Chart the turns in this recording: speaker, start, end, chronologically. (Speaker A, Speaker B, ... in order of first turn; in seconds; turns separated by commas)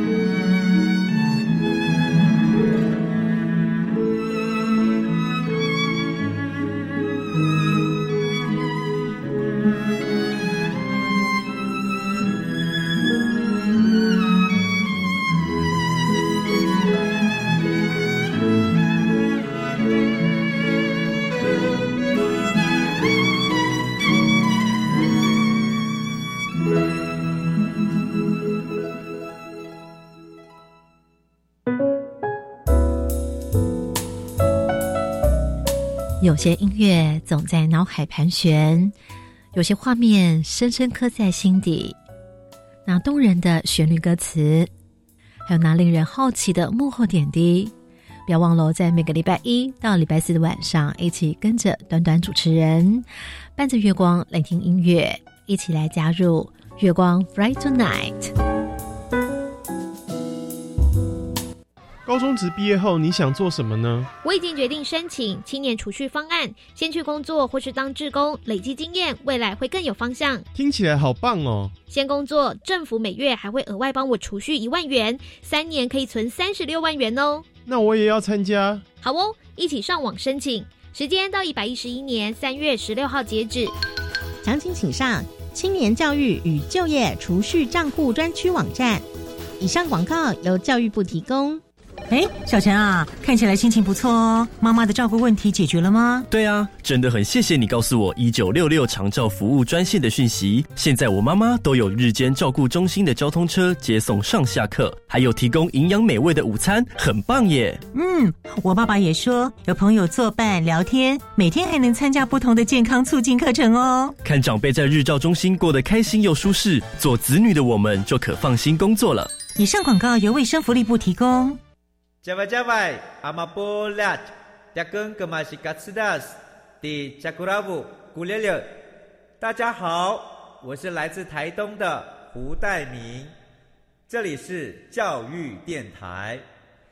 Speaker A: 36.2-38.9, Speaker A: 39.5-42.0, Speaker A: 42.9-44.7, Speaker A: 45.5-47.7, Speaker A: 48.3-53.0, Speaker A: 53.5-58.3, Speaker B: 62.0-64.1, Speaker C: 64.2-70.4, Speaker B: 70.5-71.7, Speaker C: 71.9-77.5, Speaker B: 77.6-78.8, Speaker C: 79.0-83.7, Speaker D: 84.4-89.0, Speaker D: 89.6-91.6, Speaker E: 92.1-96.2, Speaker F: 96.3-107.8, Speaker E: 107.9-114.2, Speaker F: 114.2-119.4, Speaker E: 119.5-121.6, Speaker G: 122.2-128.7, Speaker G: 129.4-133.3, Speaker G: 134.1-136.4